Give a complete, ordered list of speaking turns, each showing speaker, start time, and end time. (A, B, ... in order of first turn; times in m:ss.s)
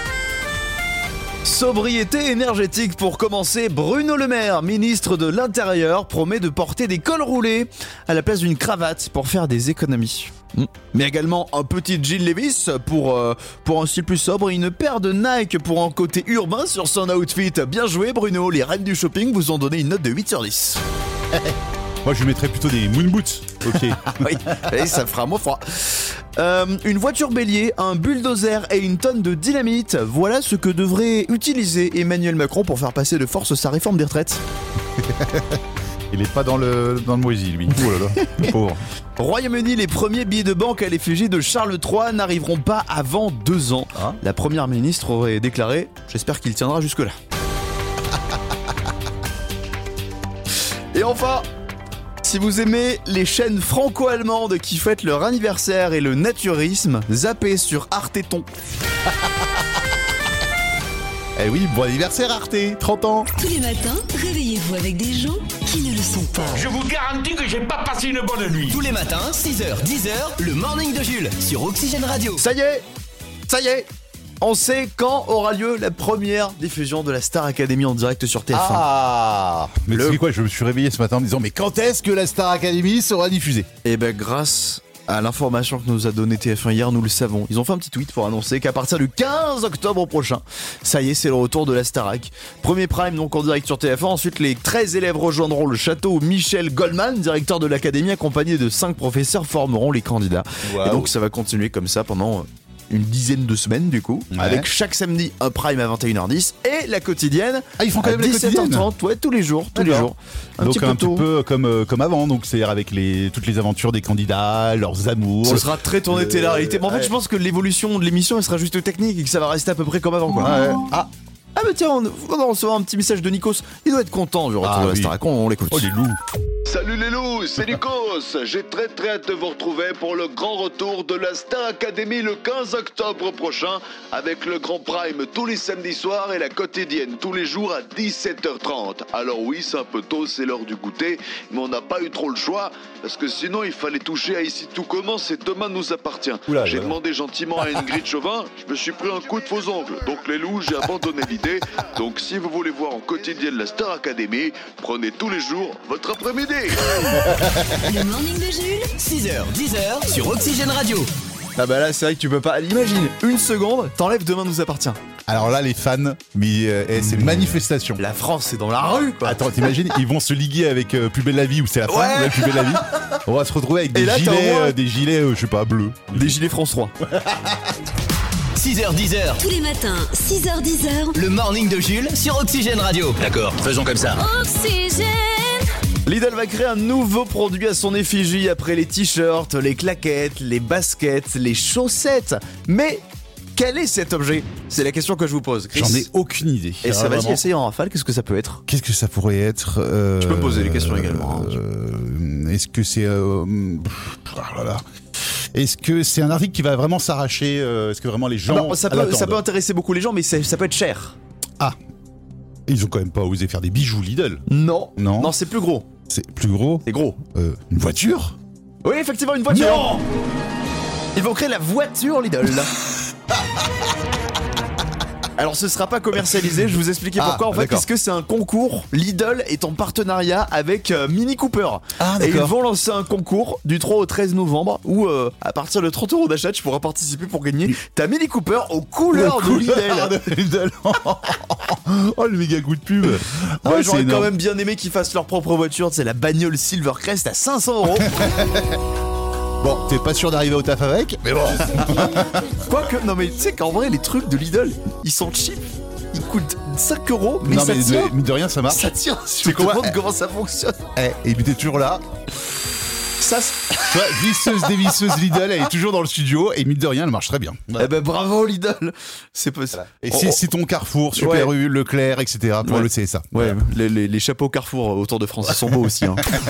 0:01.4-0:20.8 A
0:21.3-0:24.7 B
0:24.0-0:34.4 A
0:35.0-0:35.6 B
0:36.1-0:38.8 B
0:39.2-0:47.1 A
0:50.9-0:51.4 A
0:52.2-0:58.4 A
1:01.4-1:03.3 B
1:03.4-1:06.6 C
1:06.5-1:08.8 D
1:08.7-1:12.4 E
1:12.4-1:12.8 A
1:13.5-1:13.9 A
1:14.4-1:18.8 A
1:18.5-1:23.7 B
1:19.9-1:20.2 A
1:23.8-1:51.3 A
1:40.6-1:41.1 B
1:44.3-1:44.6 B
1:47.8-1:48.9 B
1:49.7-1:57.1 B
1:55.4-2:05.9 A
2:00.4-2:01.0 B
2:04.6-2:05.2 B
2:05.7-2:06.2 B
2:06.7-2:36.8 F
2:26.5-2:27.0 B
2:36.8-2:38.9 C
2:37.2-2:37.8 B
2:39.0-2:41.1 E
2:41.6-2:45.0 A
2:45.3-2:48.0 B
2:47.1-2:49.7 A
2:49.2-2:56.3 B
2:51.9-2:53.2 A
2:53.9-2:54.7 A
2:56.1-2:56.9 A
2:57.1-2:57.6 B
2:58.6-2:59.4 E
2:59.4-3:01.1 C
3:01.1-3:04.2 E
3:04.2-3:05.7 C
3:06.0-3:13.0 A
3:13.6-3:16.1 A
3:15.7-3:17.4 B
3:16.8-3:18.6 A
3:18.7-3:24.8 B
3:20.2-3:21.6 A
3:25.5-3:29.4 B
3:28.5-3:31.2 A
3:32.7-3:34.4 B
3:34.5-3:35.9 A
3:35.0-3:35.3 B
3:36.1-3:38.4 B
3:36.8-3:37.2 A
3:38.8-3:40.0 A
3:39.5-3:40.0 B
3:41.1-3:42.7 A
3:42.9-3:43.8 B
3:45.4-4:00.2 A
3:47.2-3:47.9 B
3:52.0-3:52.6 B
3:59.1-4:04.3 B
4:03.6-4:08.2 A
4:08.1-4:08.8 B
4:09.6-4:12.5 B
4:12.6-4:18.1 A
4:17.4-4:19.9 B
4:18.7-4:20.8 A
4:21.0-4:22.0 B
4:23.2-4:25.2 A
4:23.9-4:27.9 B
4:27.8-4:30.4 A
4:29.8-4:33.6 B
4:31.2-4:31.5 A
4:32.6-4:36.2 A